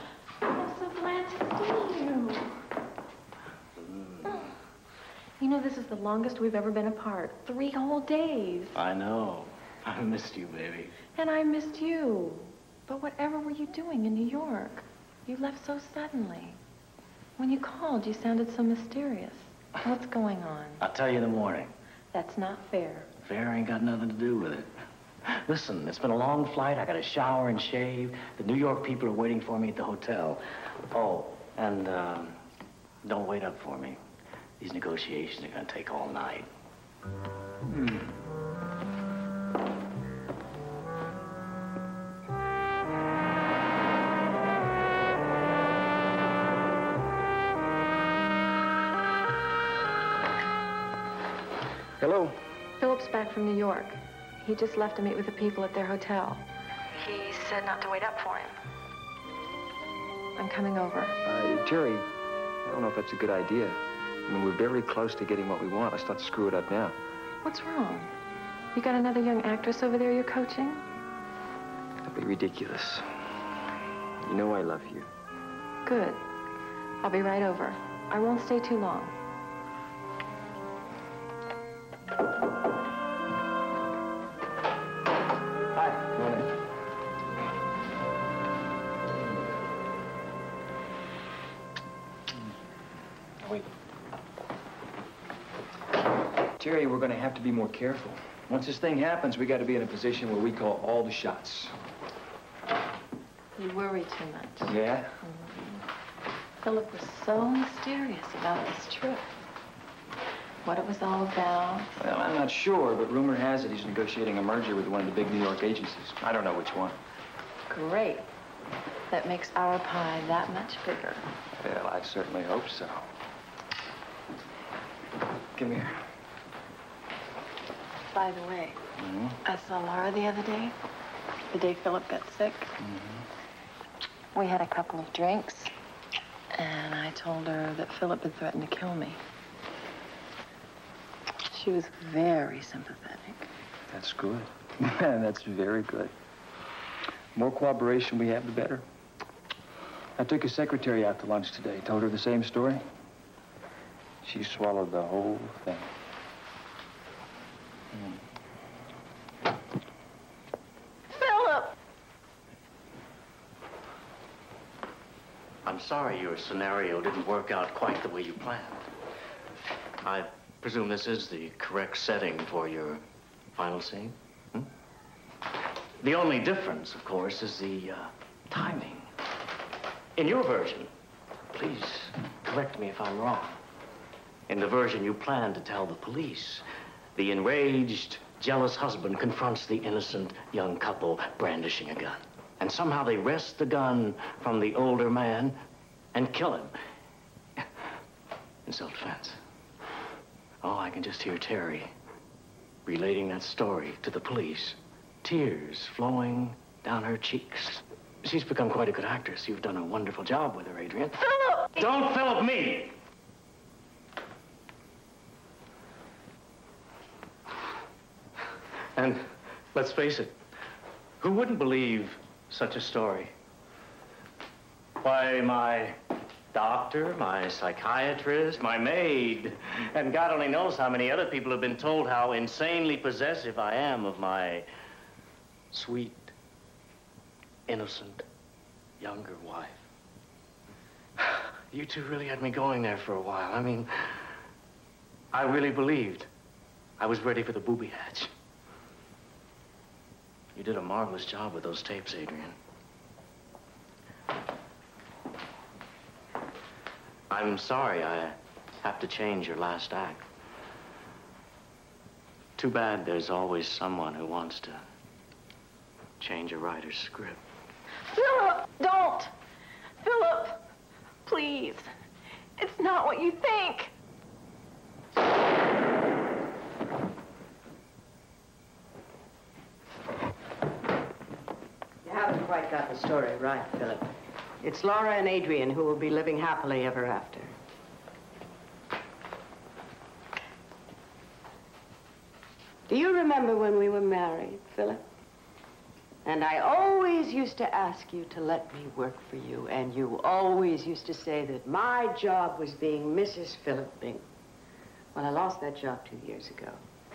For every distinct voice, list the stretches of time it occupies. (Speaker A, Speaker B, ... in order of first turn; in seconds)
Speaker A: 0.4-2.5, 4.3-4.5, 5.4-8.8, 11.2-16.6, 17.4-20.8, 22.1-23.1, 52.8-56.4, 57.0-58.5, 60.4-61.2, 67.4-68.1, 68.7-70.8, 75.8-76.2, 77.0-79.2, 103.6-105.8, 106.6-109.3, 110.6-112.0, 117.7-118.3, 119.1-121.3, 128.1-128.8, 129.4-130.8, 131.5-132.7, 134.3-135.7, 136.5-139.2, 141.4-143.5, 161.1-161.7, 268.1-269.3, 270.0-270.6, 271.2-271.9, 272.6-273.9
Speaker B: 3.8-4.3, 8.8-11.0, 20.8-21.7, 23.2-24.7, 25.3-32.4, 33.0-34.0, 34.6-36.5, 165.7-168.9, 170.0-173.0, 173.5-174.7, 176.0-179.1, 180.2-180.9, 181.5-183.6, 184.5-186.6, 187.2-195.6, 196.1-196.7, 198.7-199.4, 200.6-201.9, 202.9-213.0, 218.9-220.3, 221.2-223.3, 225.0-226.0, 226.5-234.7, 235.7-236.3, 237.7-238.2, 239.0-239.9, 241.2-244.3, 245.3-246.3, 247.0-248.3, 250.6-252.6, 257.3-260.2, 262.6-264.8, 266.2-267.4
Speaker C: 37.7-38.1, 52.0-52.4, 61.2-62.1, 62.6-67.0, 72.0-73.0, 74.2-75.1, 85.8-86.5, 96.6-101.7, 104.7-105.1, 112.0-117.0, 121.6-123.0, 125.6-126.0, 129.0-129.4, 132.8-133.1, 143.9-146.1, 147.3-148.8, 150.2-152.8, 154.2-155.9, 157.9-158.2
Speaker D: 282.0-284.1, 284.6-287.6, 292.9-295.0, 296.2-304.2, 305.1-306.8